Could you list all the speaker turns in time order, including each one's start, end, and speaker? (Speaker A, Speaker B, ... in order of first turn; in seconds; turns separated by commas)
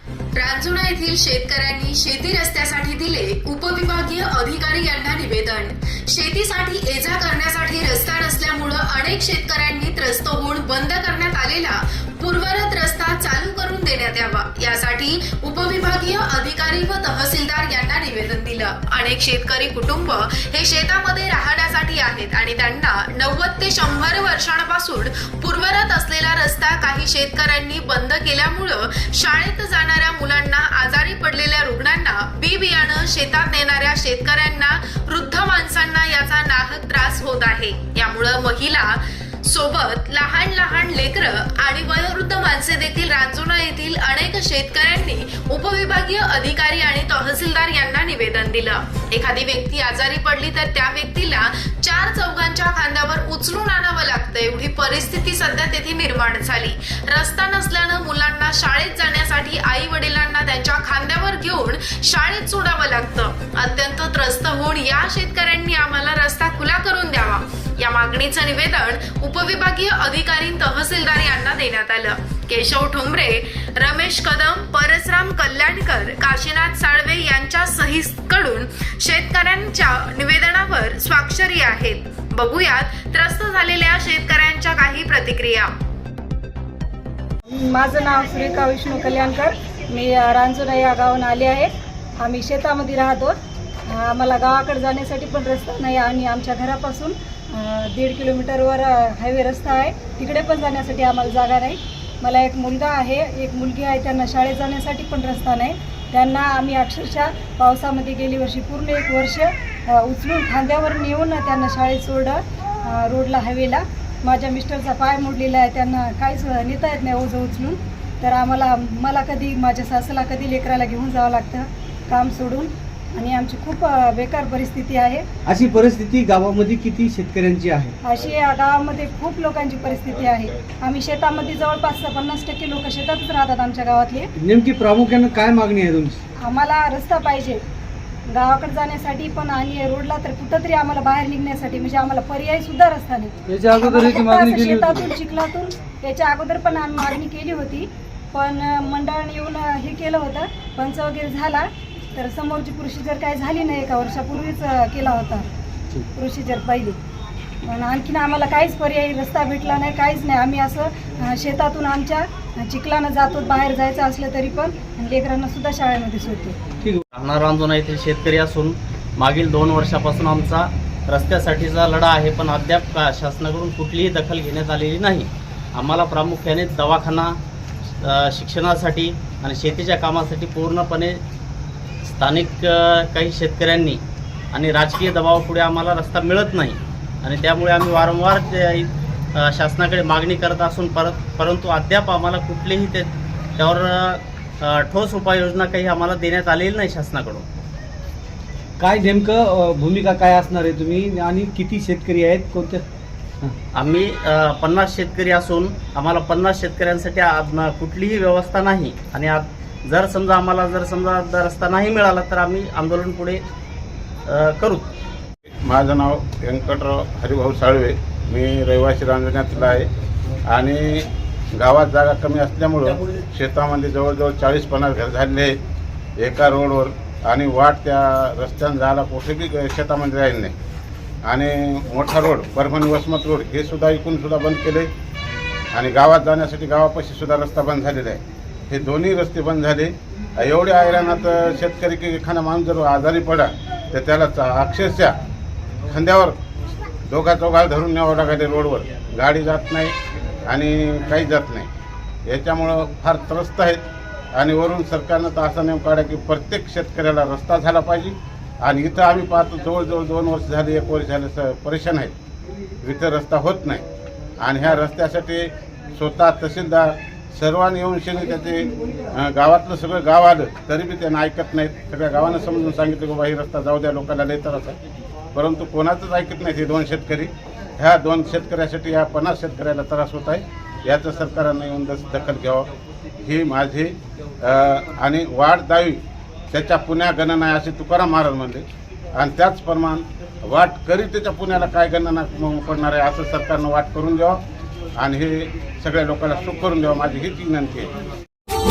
Speaker A: 0.3-85.7, Speaker B: 87.5-93.3, Speaker B: 93.9-125.2, Speaker C: 125.5-127.9, Speaker B: 128.0-134.3, Speaker C: 134.4-136.2, Speaker B: 136.4-137.6, Speaker B: 138.3-155.5, Speaker C: 143.5-145.1, Speaker B: 156.1-157.0, Speaker B: 157.6-166.6, Speaker D: 167.1-177.3, Speaker D: 178.0-181.2, Speaker D: 182.1-197.4, Speaker C: 198.8-202.8, Speaker D: 203.8-213.4, Speaker D: 214.3-214.9, Speaker E: 215.6-219.9, Speaker E: 220.5-225.5, Speaker E: 226.2-230.5, Speaker E: 231.2-234.9, Speaker E: 235.7-245.2, Speaker E: 245.9-246.3, Speaker E: 247.1-249.9, Speaker E: 250.5-251.7, Speaker E: 252.2-262.1, Speaker E: 262.8-263.8, Speaker E: 264.4-274.8, Speaker E: 275.3-294.4, Speaker E: 295.0-297.9